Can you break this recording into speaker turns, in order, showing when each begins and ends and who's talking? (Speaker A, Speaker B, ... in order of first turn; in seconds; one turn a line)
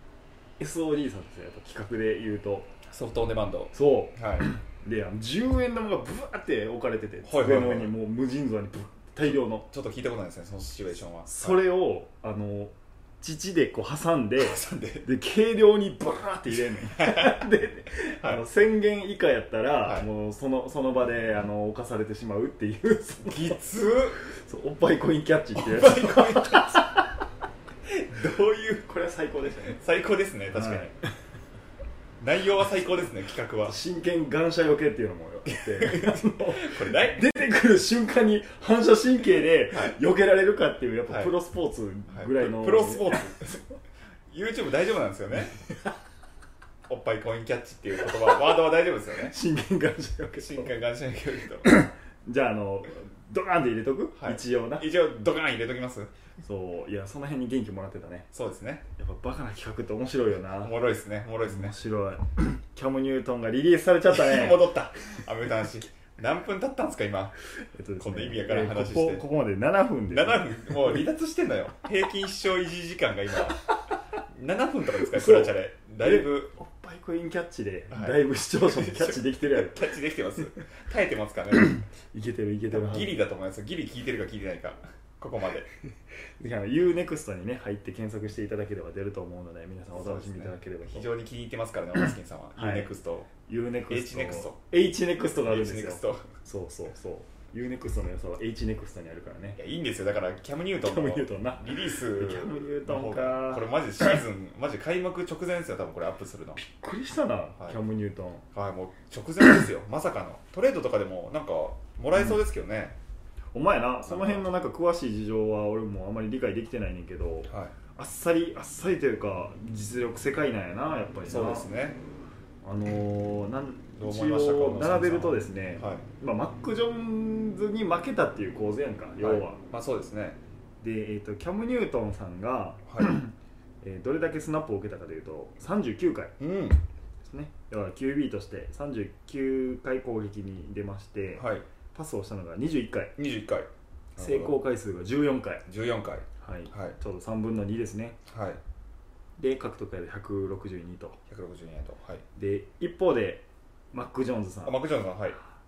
Speaker A: 0.6-2.7
Speaker B: 2.9-4.5
Speaker A: 3.7-9.7
Speaker B: 7.2-7.9
Speaker B: 9.2-11.6
Speaker A: 11.2-23.6
Speaker B: 14.4-15.0
Speaker B: 16.9-17.5
Speaker B: 19.8-20.1
Speaker B: 23.3-24.2
Speaker A: 24.1-27.2
Speaker B: 25.6-26.8
Speaker B: 27.9-28.6
Speaker A: 28.1-29.8
Speaker B: 29.6-30.9
Speaker A: 30.5-30.9
Speaker B: 32.2-33.8
Speaker A: 33.6-43.6
Speaker B: 35.5-37.3
Speaker B: 39.7-40.0
Speaker B: 41.0-41.4
Speaker B: 42.1-43.6
Speaker B: 44.3-45.6
Speaker B: 46.9-49.4
Speaker A: 49.1-50.7
Speaker B: 50.4-51.7
Speaker A: 51.6-54.9
Speaker B: 54.2-56.1
Speaker A: 56.4-58.3
Speaker B: 58.3-58.8
Speaker A: 59.0-60.8
Speaker B: 60.6-61.8
Speaker A: 61.4-64.7
Speaker B: 64.1-67.3
Speaker A: 67.6-71.0
Speaker B: 68.0-69.2
Speaker B: 70.1-73.6
Speaker B: 74.3-76.5
Speaker A: 75.0-80.6
Speaker B: 77.9-81.7
Speaker A: 81.5-83.2
Speaker B: 82.7-85.7
Speaker A: 86.4-91.1
Speaker B: 89.9-93.3
Speaker A: 92.5-92.9
Speaker A: 93.5-99.6
Speaker B: 93.9-94.6
Speaker B: 95.4-96.3
Speaker B: 99.6-106.6
Speaker A: 100.8-104.2
Speaker A: 106.5-108.4
Speaker B: 108.5-113.0
Speaker A: 113.5-121.7
Speaker B: 114.0-114.5
Speaker B: 117.5-117.7
Speaker B: 121.2-122.0
Speaker A: 122.6-129.6
Speaker B: 123.9-126.0
Speaker B: 129.2-130.4
Speaker A: 130.8-136.3
Speaker B: 136.4-136.8
Speaker A: 137.2-143.1
Speaker B: 141.4-141.7
Speaker B: 143.2-144.6
Speaker A: 144.2-145.6
Speaker B: 145.7-147.0
Speaker A: 146.4-148.2
Speaker B: 148.2-148.6
Speaker A: 149.4-151.2
Speaker B: 151.3-152.2
Speaker A: 152.3-154.8
Speaker B: 154.6-155.4